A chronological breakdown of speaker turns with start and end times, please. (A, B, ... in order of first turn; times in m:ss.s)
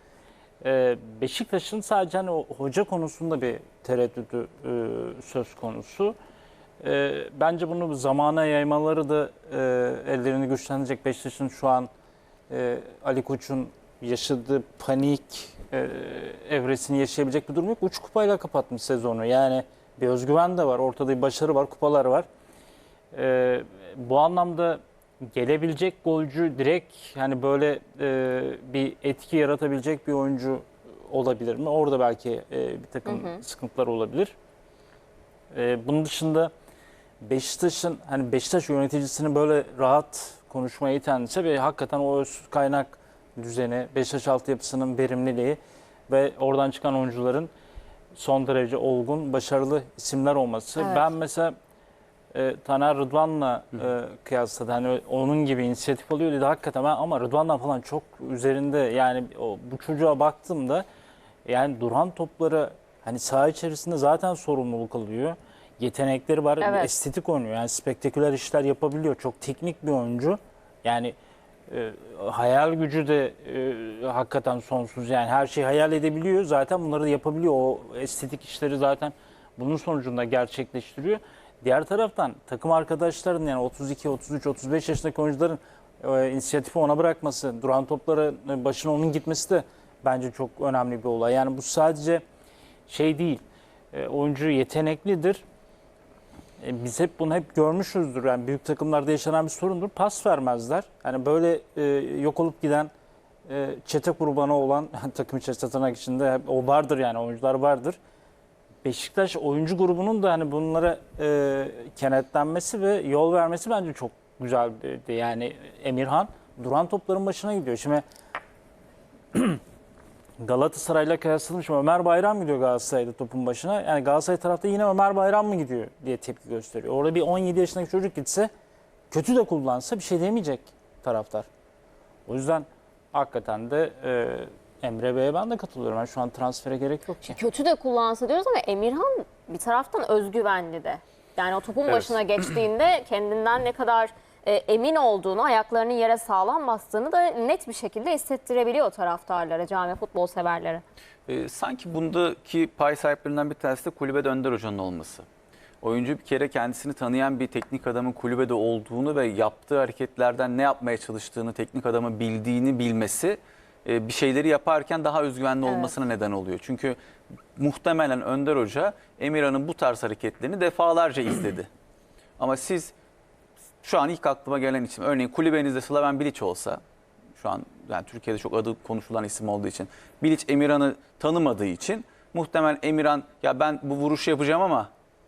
0:00.6-0:06.2 A
0:06.8-0:11.9 A
0:12.5-0:22.3 A
0:23.1-0:34.3 A
0:33.0-0:33.4 B
0:35.5-0:36.5 A
0:37.2-0:47.5 A
0:48.1-0:51.5 A
0:50.8-0:51.1 B
0:52.3-1:00.8 A
1:01.4-1:11.1 A
1:06.6-1:06.9 B
1:11.7-1:32.2 A
1:32.9-1:35.4 A
1:36.6-1:42.9 A
1:43.4-1:48.0 A
1:48.8-1:58.0 A
1:59.3-1:59.6 A
2:00.4-2:08.5 A
2:09.1-2:11.5 A
2:12.3-2:17.4 A
2:17.2-2:30.8 B
2:31.3-2:35.2 C
2:35.8-2:47.0 C
2:45.6-2:46.0 B
2:47.6-2:51.7 C
2:52.4-2:52.9 C
2:53.8-2:56.8 C
2:57.4-3:04.9 C